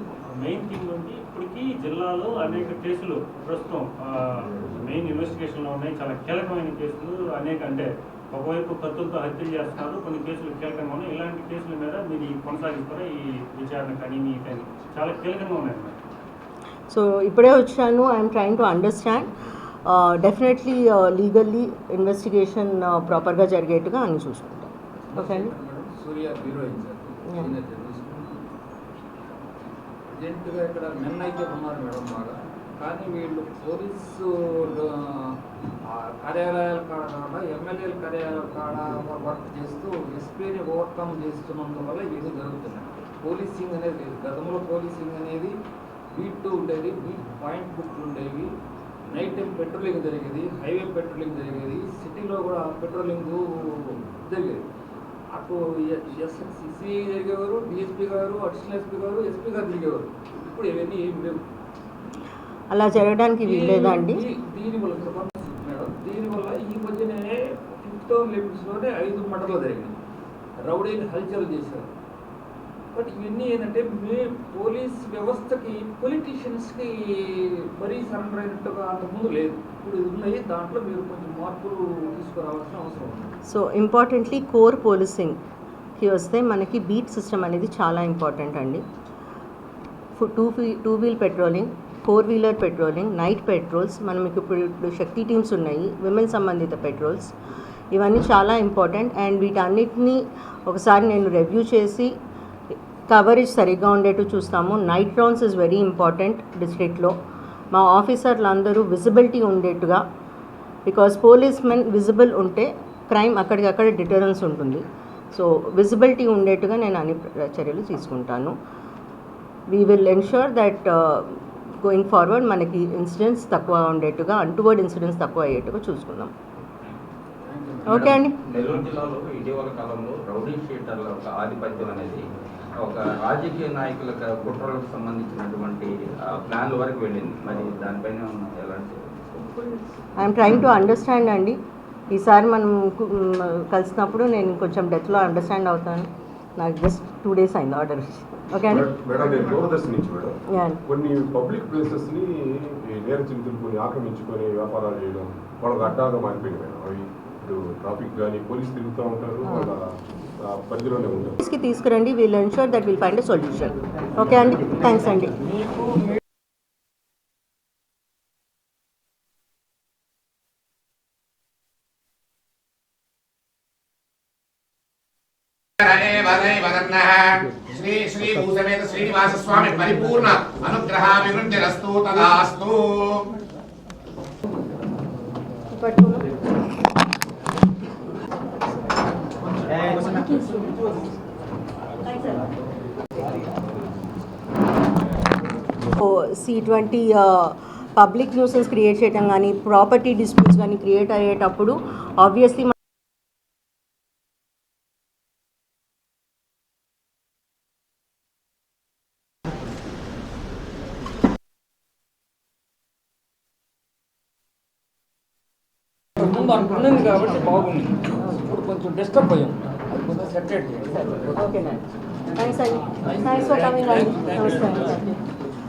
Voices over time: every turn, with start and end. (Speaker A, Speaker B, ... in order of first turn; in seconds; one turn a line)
Speaker A: 0.4-16.0
Speaker B: 16.9-19.3
Speaker B: 19.9-25.5
Speaker C: 25.0-28.4
Speaker C: 30.1-35.4
Speaker C: 35.9-45.5
Speaker C: 46.1-48.5
Speaker C: 49.1-54.6
Speaker C: 55.3-61.4
Speaker B: 62.7-64.2
Speaker C: 63.5-70.0
Speaker C: 70.6-71.9
Speaker C: 72.9-83.3
Speaker B: 83.5-85.4
Speaker B: 86.0-88.8
Speaker B: 90.2-97.3
Speaker B: 97.9-102.1
Speaker B: 103.1-107.2
Speaker B: 107.7-110.0
Speaker B: 110.9-118.5
Speaker B: 119.7-126.3
Speaker C: 127.4-128.2
Speaker B: 127.9-128.3
Speaker D: 128.0-132.2
Speaker D: 132.8-139.7
Speaker B: 140.2-141.6
Speaker B: 142.1-148.9
Speaker E: 148.7-150.3
Speaker B: 150.5-150.8
Speaker E: 150.9-161.4
Speaker B: 159.4-159.7
Speaker B: 161.4-165.3
Speaker F: 175.8-182.8
Speaker B: 185.7-186.3
Speaker B: 196.0-202.7
Speaker C: 216.2-221.3
Speaker B: 221.3-221.8
Speaker B: 222.4-225.2
Speaker C: 223.1-225.0